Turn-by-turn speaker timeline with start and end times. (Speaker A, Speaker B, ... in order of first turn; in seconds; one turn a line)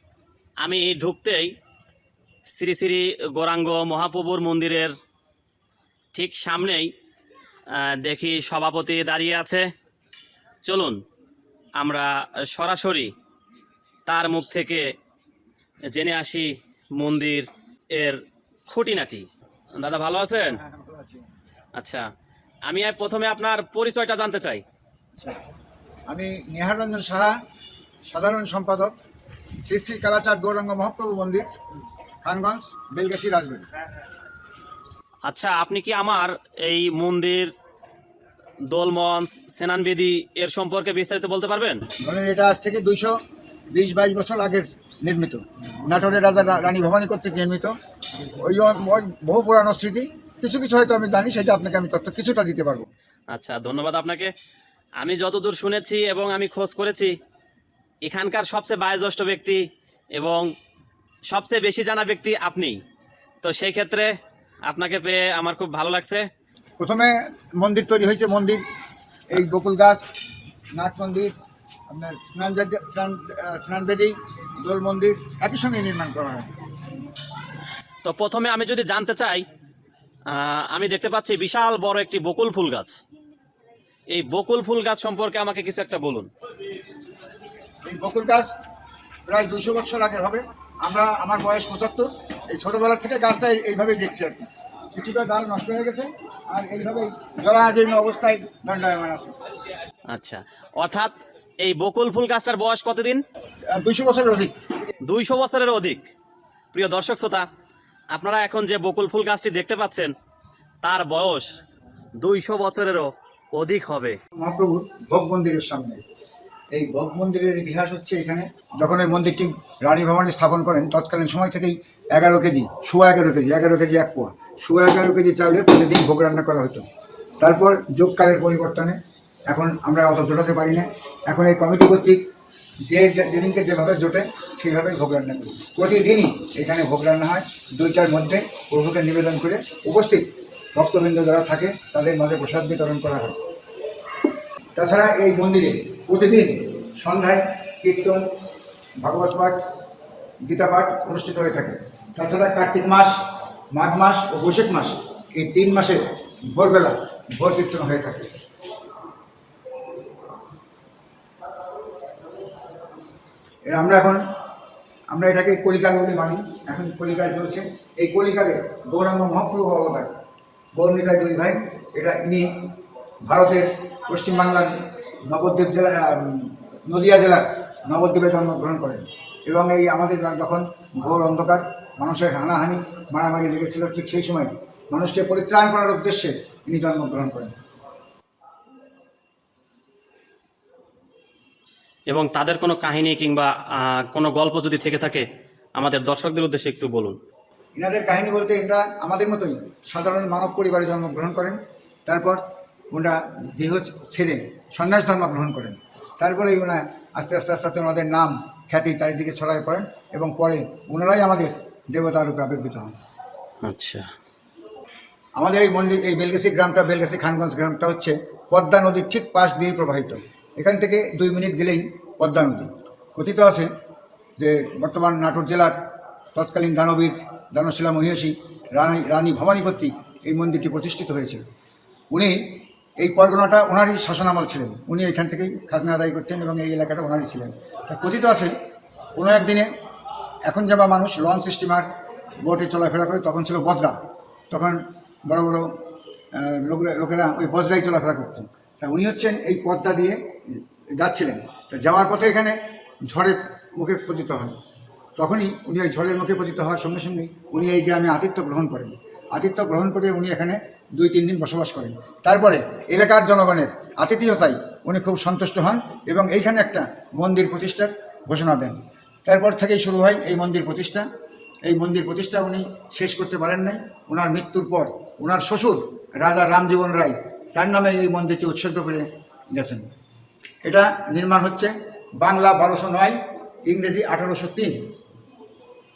Speaker A: 0.6-1.5
Speaker A: 2.5-4.9
Speaker A: 6.1-6.9
Speaker A: 7.7-9.7
Speaker A: 10.6-11.0
Speaker A: 11.8-13.1
Speaker A: 14.1-14.9
Speaker A: 15.9-19.3
Speaker A: 19.8-20.6
Speaker B: 20.5-21.3
Speaker A: 21.8-22.1
Speaker A: 22.7-24.6
Speaker B: 26.1-27.4
Speaker B: 28.1-28.9
Speaker B: 29.6-31.4
Speaker B: 32.2-33.7
Speaker A: 35.2-37.5
Speaker A: 38.7-41.8
Speaker B: 42.0-43.2
Speaker B: 43.7-47.7
Speaker B: 48.3-52.9
Speaker A: 53.3-54.3
Speaker A: 55.0-57.1
Speaker A: 58.0-59.6
Speaker A: 60.1-60.5
Speaker A: 61.3-62.8
Speaker A: 63.4-64.1
Speaker A: 64.7-66.3
Speaker B: 66.8-68.6
Speaker B: 69.3-70.0
Speaker B: 70.7-71.3
Speaker B: 71.9-76.5
Speaker A: 78.0-79.4
Speaker A: 80.3-83.0
Speaker A: 84.1-86.3
Speaker B: 87.8-88.5
Speaker B: 89.3-99.3
Speaker A: 100.1-103.2
Speaker B: 103.7-104.5
Speaker A: 105.0-106.1
Speaker A: 106.7-107.5
Speaker A: 108.1-110.1
Speaker A: 110.8-111.6
Speaker A: 112.2-114.2
Speaker B: 114.3-116.0
Speaker B: 116.7-126.8
Speaker B: 127.4-132.3
Speaker B: 132.9-143.3
Speaker B: 144.8-148.2
Speaker B: 149.0-149.6
Speaker B: 150.4-158.3
Speaker B: 163.7-164.2
Speaker B: 165.1-170.2
Speaker B: 170.7-172.7
Speaker B: 173.2-187.5
Speaker A: 192.1-195.2
Speaker A: 195.8-197.2
Speaker B: 197.8-212.9
Speaker A: 213.6-214.1
Speaker B: 215.4-223.7
Speaker B: 224.4-225.8
Speaker B: 226.3-231.4
Speaker B: 232.1-238.5
Speaker B: 239.2-239.7
Speaker B: 240.4-241.9
Speaker B: 242.4-244.0
Speaker B: 244.5-245.8
Speaker B: 246.3-254.6
Speaker B: 255.2-271.1
Speaker B: 271.6-279.8
Speaker B: 280.6-284.8